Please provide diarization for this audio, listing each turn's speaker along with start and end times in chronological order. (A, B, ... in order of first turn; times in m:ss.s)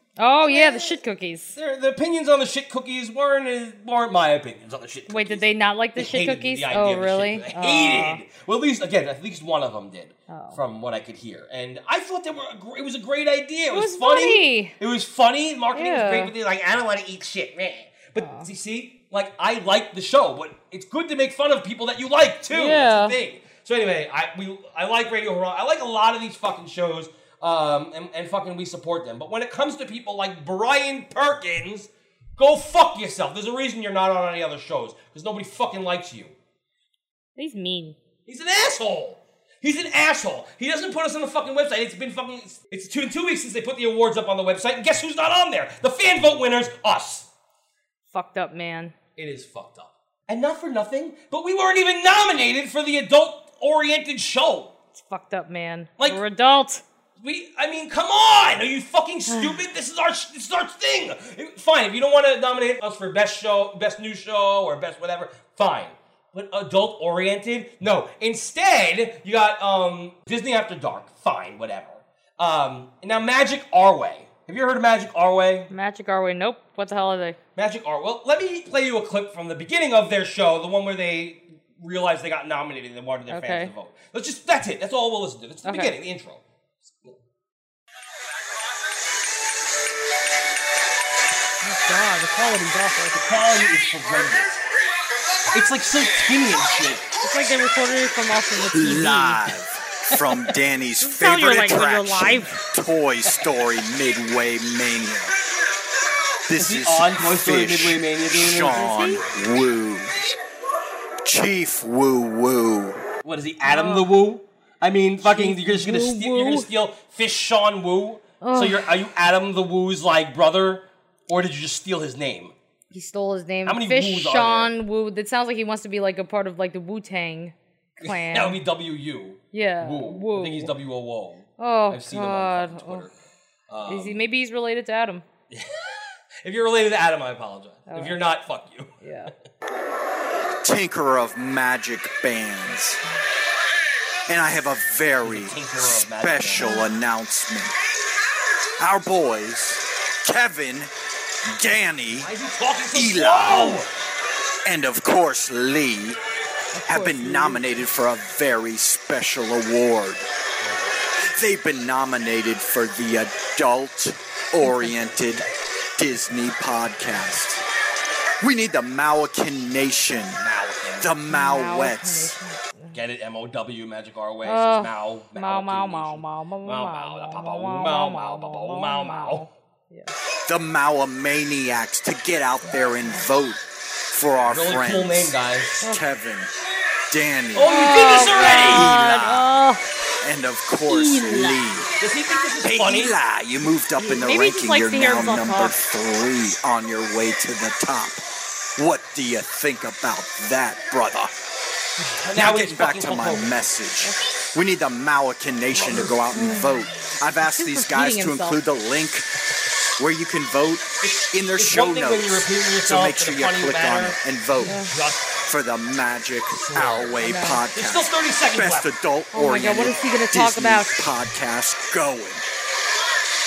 0:00.2-0:01.5 A
0:00.4-0:01.0 B
0:01.5-0:36.3 B
0:05.1-0:08.2 A
0:10.3-0:10.6 A
0:13.7-0:14.7 A
0:15.7-0:16.3 A
0:18.2-0:18.5 A
0:22.5-0:23.2 A
0:37.4-0:38.0 A
0:38.2-0:47.3 B
0:48.1-0:48.9 A
0:49.2-0:54.7 B
0:54.9-0:56.8 A
0:57.2-1:15.7 B
0:59.3-0:59.6 A
1:15.7-1:17.4 A
1:17.6-1:26.4 B
1:23.3-1:23.7 A
1:25.6-1:25.9 A
1:31.6-1:33.2 A
1:33.1-1:34.6 B
1:35.5-1:37.0 B
1:37.2-1:39.5 A
1:38.7-1:45.3 C
1:41.0-1:42.6 A
1:46.5-1:50.2 C
1:46.5-1:48.8 B
1:48.7-1:49.3 A
1:51.2-1:53.0 C
1:53.2-2:02.5 B
1:53.6-1:54.1 A
1:55.2-1:56.7 A
1:58.4-1:58.9 A
2:02.9-2:08.6 A
2:03.6-2:04.7 B
2:08.0-2:13.1 B
2:09.5-2:10.7 A
2:11.6-2:13.1 A
2:13.7-2:14.2 B
2:13.8-2:15.2 A
2:15.5-2:18.9 B
2:17.9-2:18.2 A
2:19.0-2:19.3 A
2:20.6-2:23.0 C
2:24.3-2:27.7 C
2:25.2-2:26.6 B
2:26.6-2:26.9 A
2:28.8-2:30.9 C
2:31.5-2:32.3 C
2:32.2-2:33.9 B
2:32.9-2:33.8 C
2:34.6-2:36.2 C
2:36.7-2:37.8 A
2:36.8-2:40.3 C
2:40.6-2:41.0 B
2:41.2-2:45.4 C
2:44.6-2:45.1 A
2:46.0-2:47.6 C
2:48.4-2:50.4 C
2:50.4-2:51.1 B
2:51.0-2:52.3 C
2:51.3-2:53.0 A
2:52.9-2:59.5 B
2:54.4-3:00.1 A
3:00.5-3:06.5 C
3:02.7-3:03.2 A
3:04.4-3:05.8 B
3:07.1-3:09.5 C
3:07.5-3:09.0 B
3:07.6-3:09.8 A
3:10.2-3:11.9 C
3:10.9-3:11.6 A
3:12.0-3:13.1 B
3:12.6-3:18.2 C
3:14.0-3:15.8 A
3:18.7-3:21.4 C
3:22.0-3:23.5 B
3:22.3-3:29.3 C
3:25.7-3:26.1 B
3:26.3-3:28.6 A
3:30.0-3:42.5 C
3:31.0-3:35.3 B
3:34.6-3:34.9 A
3:36.7-3:37.2 B
3:37.2-3:37.6 A
3:37.7-3:38.9 B
3:39.3-3:41.0 A